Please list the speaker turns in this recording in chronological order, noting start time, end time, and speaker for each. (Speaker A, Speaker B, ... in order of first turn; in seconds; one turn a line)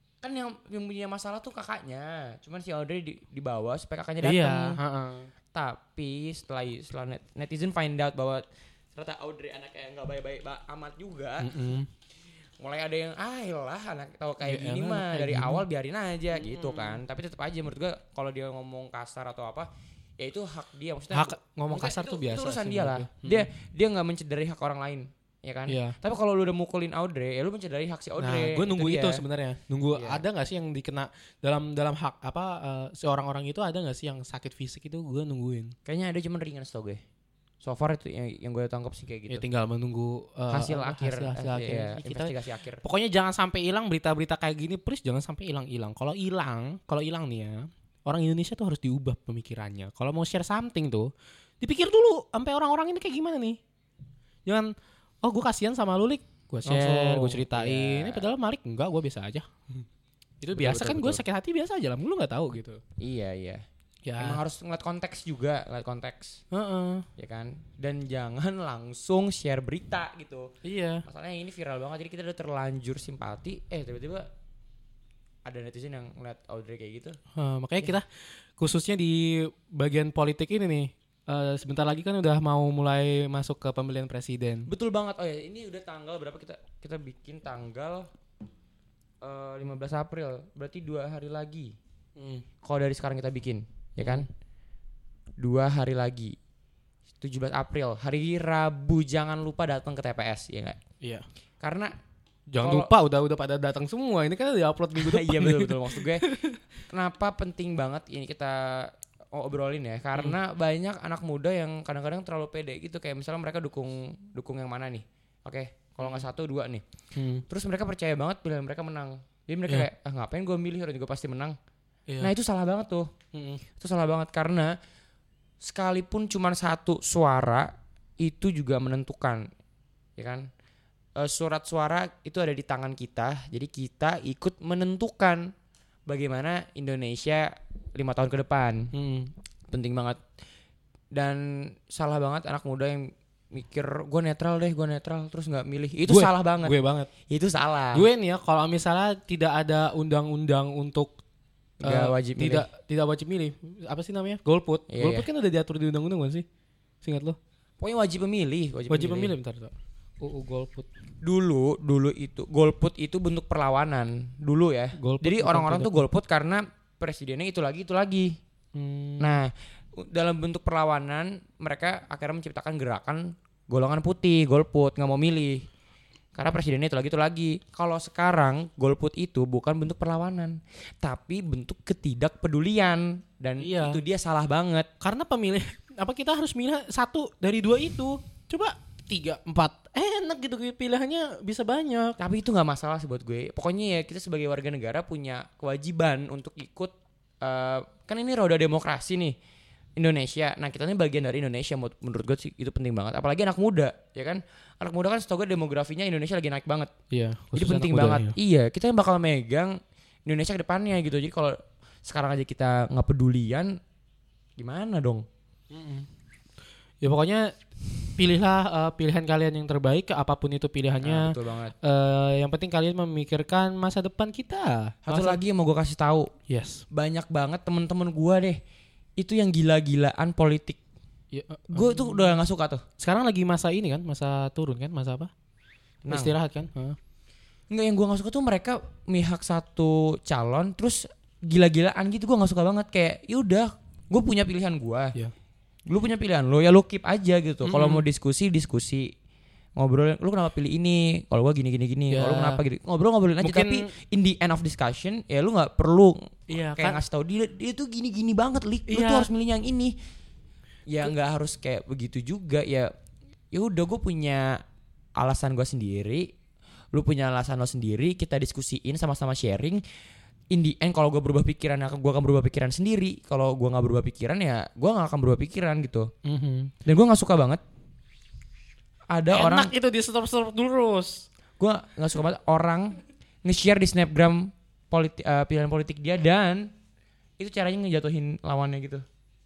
Speaker A: 0.2-4.8
Speaker B: 4.2-5.3
Speaker A: 5.5-8.4
Speaker A: 8.9-11.8
Speaker B: 11.4-11.9
Speaker A: 12.6-29.2
Speaker B: 14.4-15.7
Speaker B: 16.3-17.0
Speaker B: 21.1-23.5
Speaker B: 25.7-26.0
Speaker B: 28.2-35.7
Speaker A: 29.9-30.2
Speaker A: 35.9-37.0
Speaker A: 37.6-39.4
Speaker B: 39.3-53.6
Speaker A: 40.5-42.8
Speaker B: 54.5-59.9
Speaker A: 56.6-58.2
Speaker B: 60.4-62.8
Speaker A: 60.5-61.2
Speaker A: 63.0-63.6
Speaker B: 64.0-64.4
Speaker A: 64.2-66.4
Speaker B: 66.5-67.1
Speaker A: 67.2-70.5
Speaker B: 70.6-71.0
Speaker A: 71.0-74.3
Speaker A: 75.5-77.2
Speaker B: 77.3-84.7
Speaker A: 84.7-88.1
Speaker A: 89.2-91.8
Speaker B: 92.2-92.5
Speaker A: 92.6-94.3
Speaker B: 94.0-94.3
Speaker A: 95.4-96.4
Speaker A: 97.2-100.8
Speaker A: 101.6-101.9
Speaker B: 102.5-106.6
Speaker A: 102.6-102.9
Speaker A: 105.0-106.3
Speaker A: 106.9-116.8
Speaker B: 117.1-117.4
Speaker A: 117.5-121.6
Speaker A: 122.2-123.1
Speaker B: 123.3-123.6
Speaker A: 123.8-124.8
Speaker A: 125.6-129.5
Speaker A: 130.2-130.5
Speaker A: 131.2-135.5
Speaker A: 136.1-138.9
Speaker B: 138.9-139.3
Speaker A: 139.7-140.2
Speaker A: 141.1-146.8
Speaker B: 146.1-147.1
Speaker A: 147.3-148.1
Speaker B: 147.9-151.2
Speaker A: 151.8-152.7
Speaker B: 151.8-156.4
Speaker A: 154.9-155.3
Speaker B: 157.0-157.4
Speaker A: 157.8-159.3
Speaker B: 158.9-160.9
Speaker A: 161.2-168.4
Speaker B: 165.0-166.0
Speaker B: 168.8-169.4
Speaker A: 169.2-175.7
Speaker A: 176.4-184.9
Speaker B: 183.6-184.0
Speaker B: 185.0-192.2
Speaker A: 192.2-199.4
Speaker A: 200.0-206.9
Speaker B: 207.1-208.4
Speaker A: 207.6-213.8
Speaker A: 214.6-215.3
Speaker B: 215.7-216.1
Speaker B: 217.0-217.5
Speaker B: 218.2-225.4
Speaker A: 221.0-221.7
Speaker A: 225.1-226.3
Speaker B: 226.5-226.8
Speaker A: 226.9-228.6
Speaker A: 229.2-230.8
Speaker B: 231.3-232.4
Speaker A: 231.7-232.8
Speaker B: 233.0-235.3
Speaker A: 236.1-236.3
Speaker B: 236.1-237.0
Speaker A: 237.7-245.2
Speaker A: 245.9-249.1
Speaker B: 247.6-248.1
Speaker A: 249.8-259.9
Speaker B: 252.1-252.6
Speaker B: 253.4-253.9
Speaker B: 256.5-257.0
Speaker B: 258.9-259.3
Speaker A: 260.9-262.9
Speaker A: 263.5-264.6
Speaker A: 265.2-266.3
Speaker A: 266.9-269.8
Speaker A: 270.5-276.1
Speaker B: 276.2-276.7
Speaker A: 276.9-277.6
Speaker A: 279.1-279.7
Speaker B: 279.3-281.3
Speaker A: 281.6-286.7
Speaker A: 287.4-289.1